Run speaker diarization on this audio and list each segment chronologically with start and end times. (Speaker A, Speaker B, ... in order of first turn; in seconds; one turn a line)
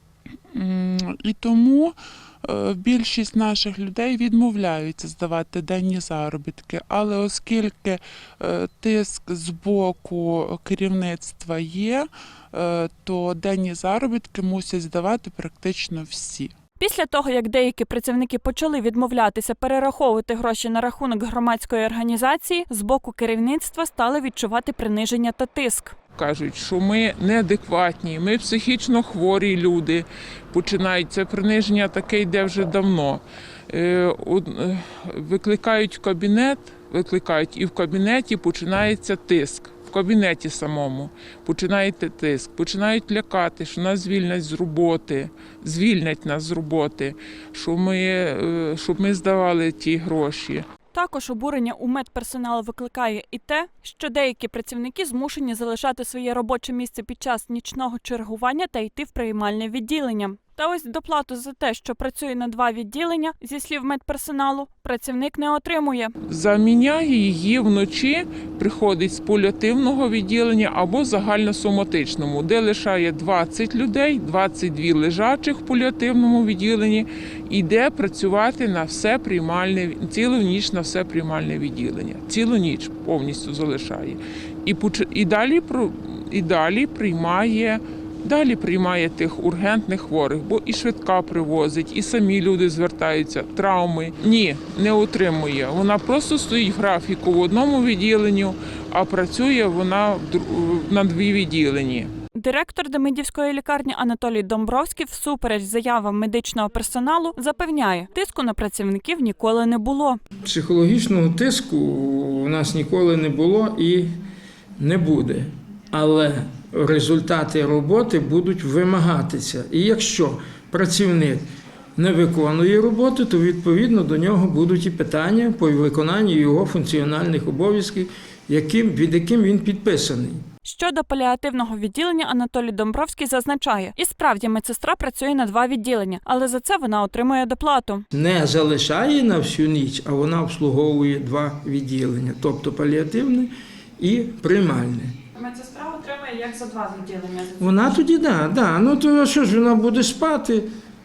Speaker A: 0.5-16.5
Speaker B: 16.8-25.9
Speaker C: 26.1-50.6
Speaker B: 50.9-66.1
Speaker C: 66.2-102.1
Speaker B: 102.3-110.2
Speaker D: 110.4-114.1
Speaker D: 114.8-130.4
Speaker B: 130.6-138.0
Speaker D: 138.1-145.1
Speaker B: 145.3-147.7
Speaker D: 147.6-150.7